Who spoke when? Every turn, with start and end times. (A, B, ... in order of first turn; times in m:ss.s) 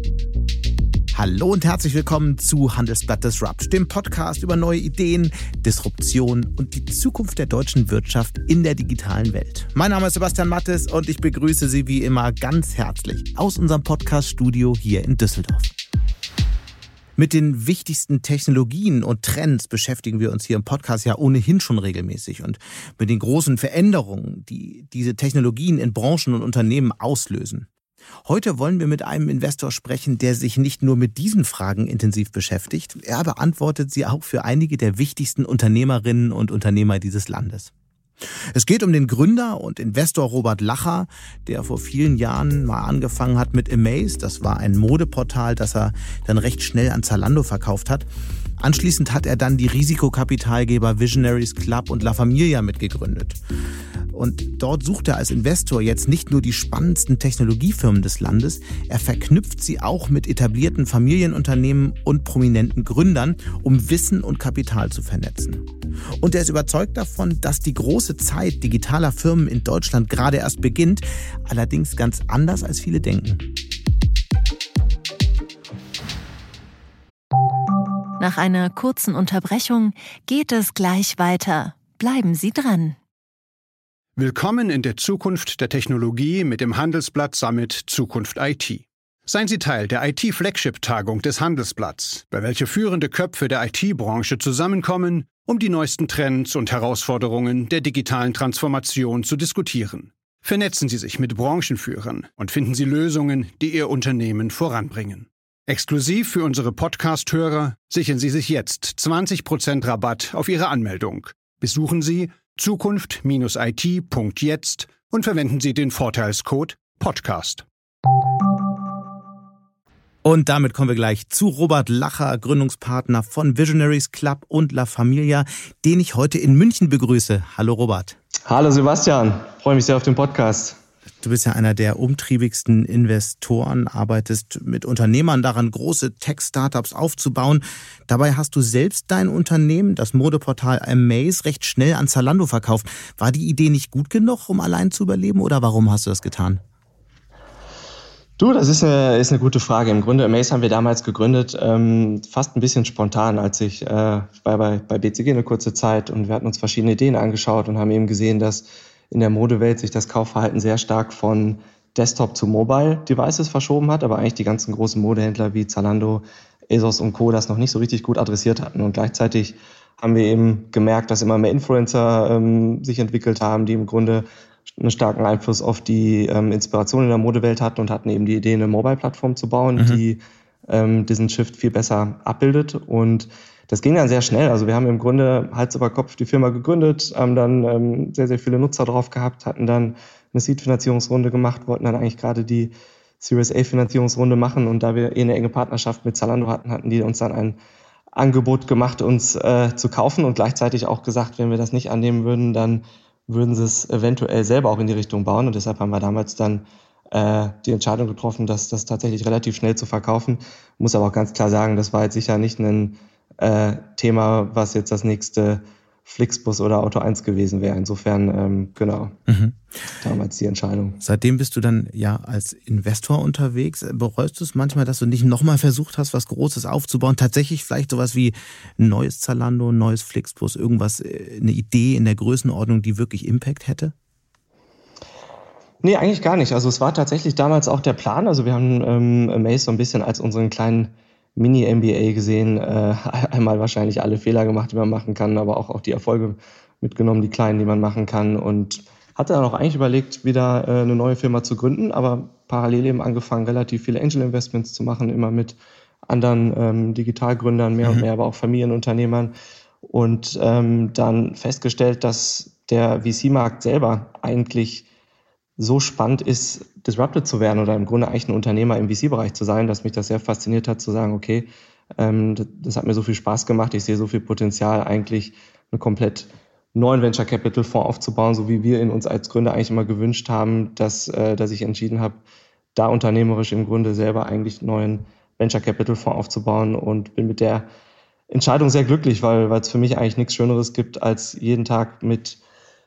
0:01.1-0:15.7 A
0:17.2-0:27.7 A
0:28.2-0:37.7 A
0:38.5-0:48.0 A
0:48.6-0:53.4 A
0:54.1-1:05.6 A
1:06.2-1:13.5 A
1:18.2-1:23.0 B
1:24.2-1:57.6 C
2:00.2-2:08.2 A
2:08.5-2:10.8 D
2:11.2-2:26.6 A
2:28.4-3:17.6 D
2:59.8-3:00.0 A
3:18.1-3:39.2 D
3:39.3-3:39.5 A
3:40.0-3:41.0 D
3:41.0-3:53.9 A
3:55.8-4:19.3 D
4:19.8-4:24.9 D
4:25.6-4:42.2 D
4:42.7-4:47.7 D
4:48.3-4:52.4 D